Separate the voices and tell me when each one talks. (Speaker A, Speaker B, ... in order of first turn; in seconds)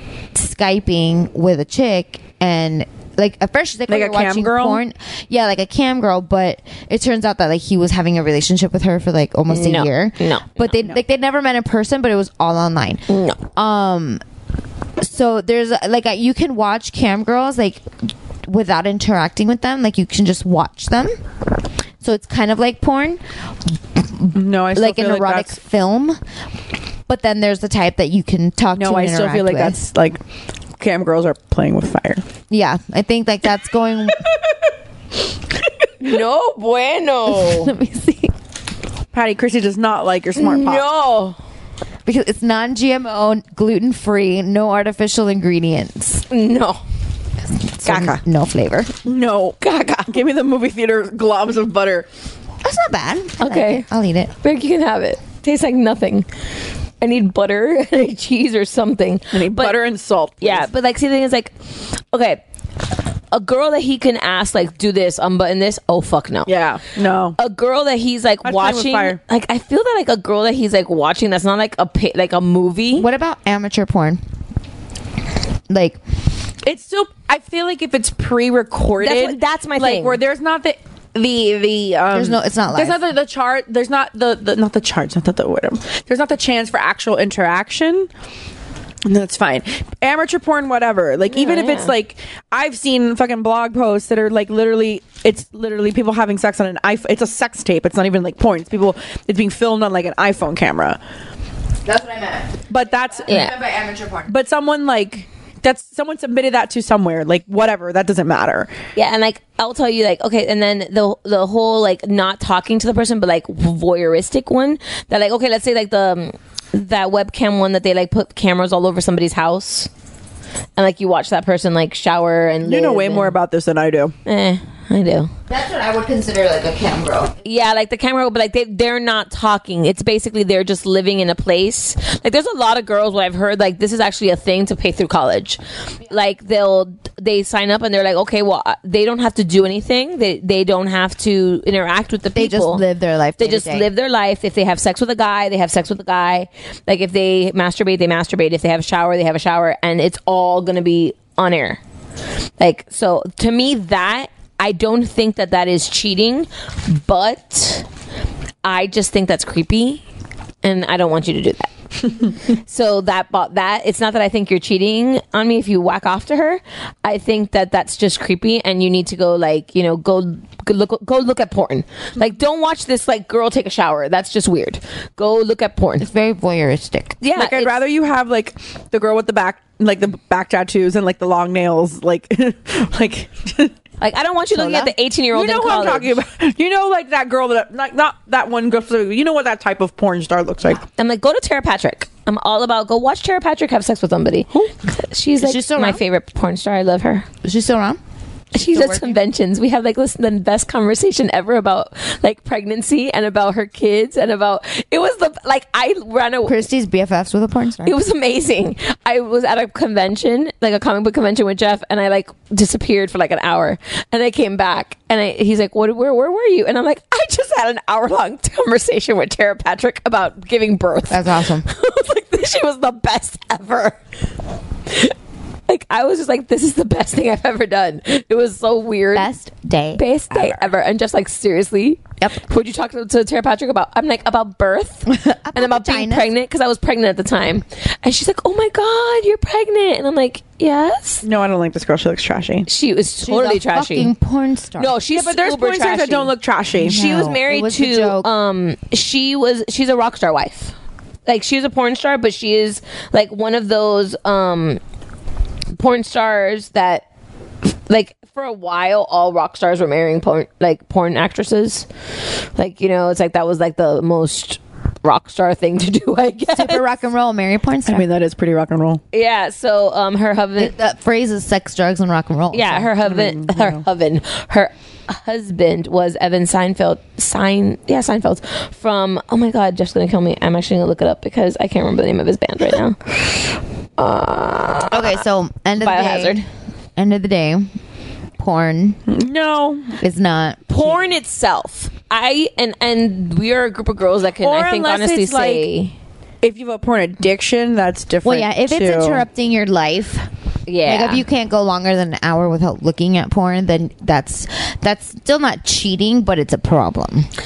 Speaker A: 0.3-13.0, 13.5-14.2, 15.0-21.1, 22.0-23.2, 23.9-26.2, 27.1-29.8, 32.5-34.2, 37.3-38.3, 42.0-46.2, 47.7-49.0, 52.6-54.3, 72.9-74.2, 75.7-76.0, 82.1-83.0, 101.8-104.3, 125.5-127.4, 142.3-143.9, 176.0-177.2, 184.5-184.9, 195.4-196.0, 197.4-198.0, 198.6-199.2, 206.4-208.0, 221.1-221.7, 229.1-230.0, 235.1-236.3, 243.2-245.0, 246.8-248.3, 266.5-268.1, 270.6-272.9, 284.9-286.4, 287.0-287.7, 288.4-289.0, 290.0-291.0, 298.2-300.3, 300.8-307.3
Speaker B: 3.9-4.8, 24.3-25.5, 28.7-30.2, 30.8-32.2, 39.1-40.8, 47.8-48.2, 49.0-52.1, 59.3-60.7, 66.5-67.4, 68.4-69.2, 76.6-88.1, 89.0-101.0, 102.7-103.5, 104.3-108.7, 122.6-124.1, 177.3-183.7, 185.3-190.8, 230.3-230.7, 241.2-242.7, 245.1-247.0, 267.9-269.0, 273.0-273.8, 289.1-290.0, 294.4-295.7, 296.4-299.2
Speaker C: 9.5-10.8, 13.1-13.4, 36.0-37.7, 40.3-41.4, 46.3-46.8, 49.6-50.2, 53.4-53.9, 54.4-56.3, 57.0-59.8, 60.4-62.4, 63.3-66.5, 67.4-73.1, 79.0-80.2, 91.3-91.9, 103.3-103.5, 109.0-119.9, 120.8-123.3, 124.2-125.3, 127.4-142.8, 143.4-151.8, 152.6-157.8, 158.6-160.0, 160.6-161.7, 162.5-176.1, 177.2-177.8, 184.0-186.2, 191.0-197.2, 198.5-206.6, 207.8-224.0, 224.9-225.1, 225.7-229.3, 229.9-241.2, 242.7-244.1, 244.8-250.7, 251.2-254.8, 255.7-257.0, 257.9-261.9, 262.6-266.8, 269.1-270.7, 272.5-285.2, 285.8-286.4, 290.7-295.9, 300.7-301.2